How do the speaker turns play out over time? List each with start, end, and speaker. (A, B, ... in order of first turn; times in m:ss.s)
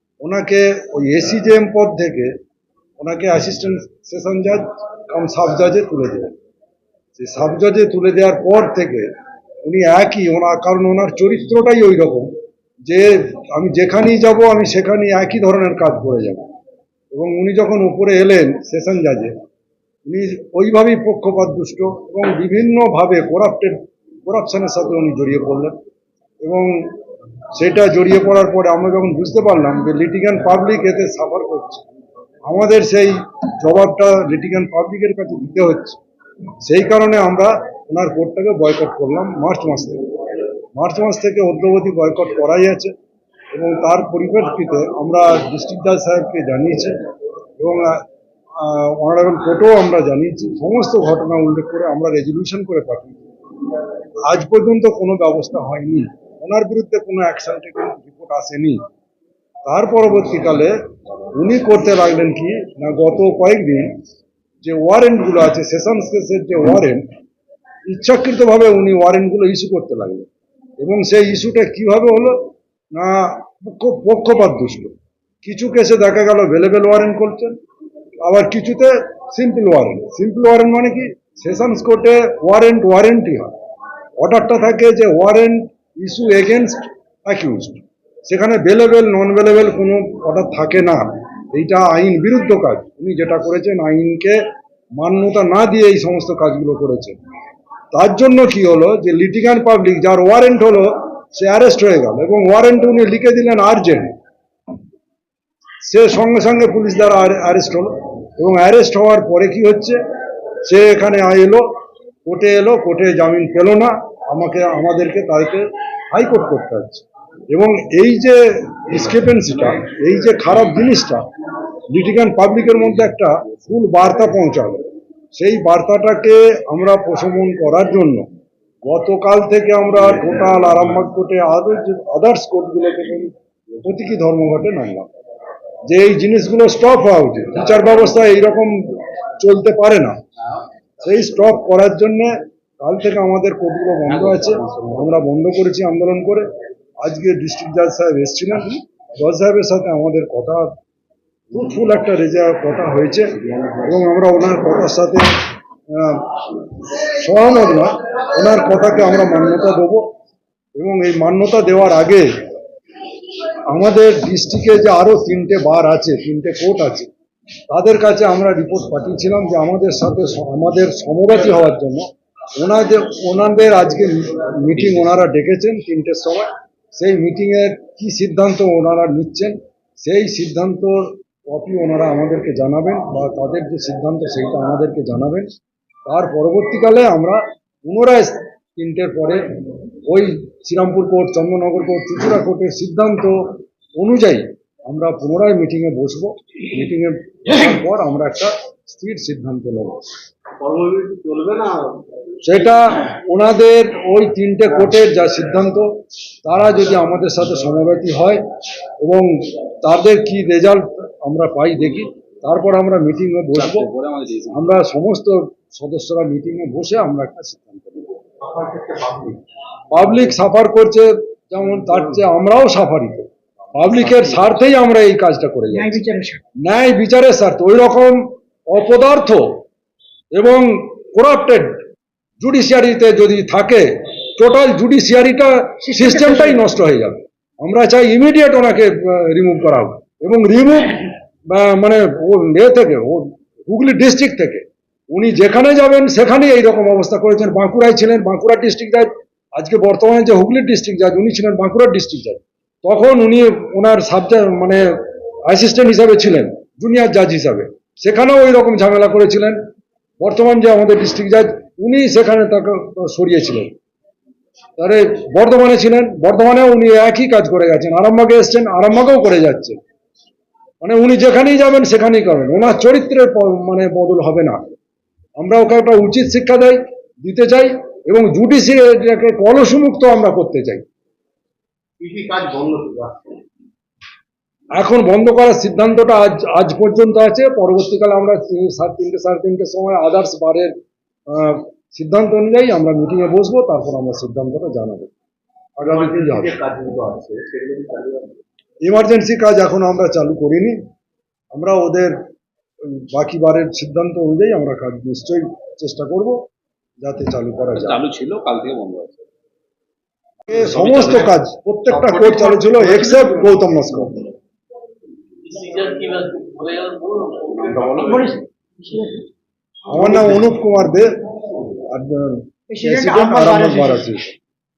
0:00.2-0:02.3 A
0:03.0-0:06.3 A
0:07.2-0:09.1 A
0:09.6-0:12.3 A
0:12.8-0:16.5 A
0:17.1-0:19.3 A
0:20.0-0:25.8 A
0:26.4-0:26.9 A
0:27.5-0:31.8 A
0:32.4-0:36.0 A
0:36.6-0:40.0 A
0:40.7-0:42.9 A
0:43.5-0:46.9 A
0:47.6-0:48.0 A
0:48.6-0:53.2 A
0:54.3-0:58.8 A
0:59.6-1:00.7 A
1:01.4-1:04.0 A
1:04.6-1:07.0 A
1:07.9-1:10.3 A
1:10.8-1:17.6 A
1:18.2-1:23.5 A
1:24.2-1:34.4 A
1:35.0-1:37.2 A
1:37.9-1:44.1 A
1:45.8-1:50.0 A
1:50.6-1:51.6 A
1:52.3-2:01.2 A
2:01.9-2:08.3 A
2:08.8-2:13.3 A
2:13.8-2:15.1 A
2:15.9-2:20.2 A
2:21.0-2:26.5 A
2:27.0-2:30.8 A
2:31.5-2:35.3 A
2:35.9-2:40.1 A
2:40.8-2:42.3 A
2:43.7-2:47.1 A
2:47.7-3:05.5 A
3:06.1-3:09.4 A
3:10.1-3:20.0 A
3:20.6-3:21.9 B
3:22.4-3:28.4 A
3:29.0-3:33.9 A
3:33.5-3:34.6 C
3:34.5-3:38.1 A
3:38.6-3:39.4 B
3:39.9-3:46.0 A
3:45.8-3:46.4 B
3:46.6-3:49.6 A
3:50.3-3:51.7 A
3:52.4-4:14.9 A
4:15.5-4:19.6 A
4:20.2-4:23.7 A
4:24.8-4:29.8 A
4:30.8-4:34.6 A
4:35.4-4:40.8 A
4:42.0-4:43.3 B
4:44.7-4:50.7 A
4:51.3-4:55.1 A
4:55.8-4:56.6 A
4:55.9-4:58.4 B
4:58.8-5:00.8 A
5:01.5-5:02.1 A
5:02.8-5:06.4 A
5:07.0-5:08.0 A
5:07.8-5:09.2 C
5:10.5-5:14.2 A
5:10.8-5:11.0 C
5:15.5-5:19.2 B
5:19.9-5:21.1 A
5:21.9-5:24.3 A
5:22.7-5:23.8 B